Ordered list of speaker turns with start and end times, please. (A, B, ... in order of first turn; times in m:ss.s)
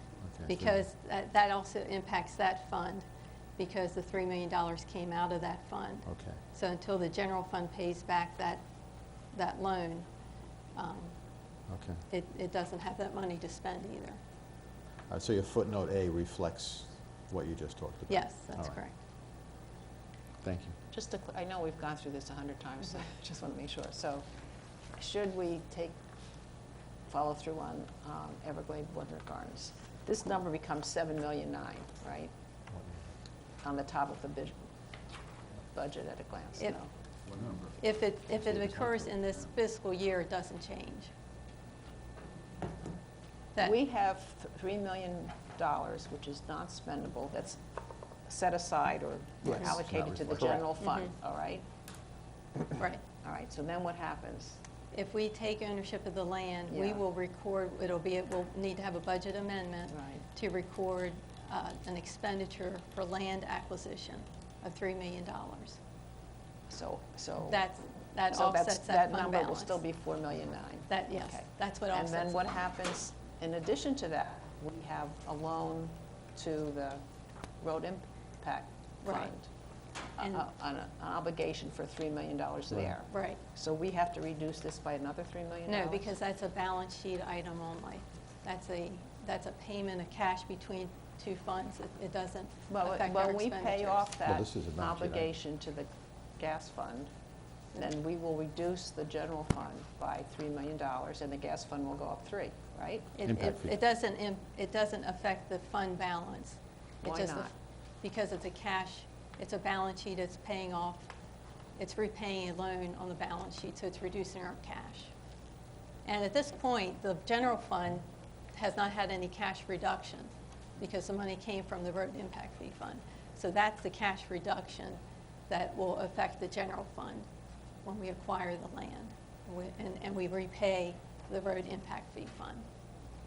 0:00.2-0:00.8 A
0:00.5-0:03.1 B
0:03.6-0:08.6 B
0:06.1-0:06.4 A
0:09.3-0:10.1 B
0:10.8-0:11.2 B
0:11.7-0:12.0 A
0:12.1-0:14.2 B
0:15.1-0:18.8 A
0:18.1-0:19.0 B
0:20.4-0:20.8 A
0:20.9-0:24.2 C
0:25.0-0:26.0 C
0:27.1-0:32.3 C
0:32.7-0:33.0 A
0:33.6-0:34.7 C
0:35.7-0:36.9 C
0:37.8-0:41.1 B
0:43.6-0:47.6 C
0:48.3-0:51.6 C
0:49.6-0:50.7 A
0:50.8-0:51.1 B
0:52.8-0:53.0 B
0:53.2-0:54.6 C
0:54.9-1:05.8 B
0:56.7-0:57.0 C
0:59.9-1:00.2 C
1:06.7-1:07.6 C
1:07.4-1:09.8 B
1:08.3-1:17.0 C
1:10.9-1:12.4 B
1:17.6-1:19.5 C
1:19.0-1:19.4 B
1:20.2-1:20.5 B
1:20.2-1:26.1 C
1:23.1-1:23.4 B
1:25.7-1:34.1 B
1:32.7-1:37.1 C
1:34.2-1:35.3 A
1:37.8-1:43.1 C
1:43.2-1:51.1 B
1:43.2-1:43.8 A
1:47.0-1:47.5 C
1:51.8-1:55.1 B
1:56.1-2:07.3 B
2:07.8-2:12.7 B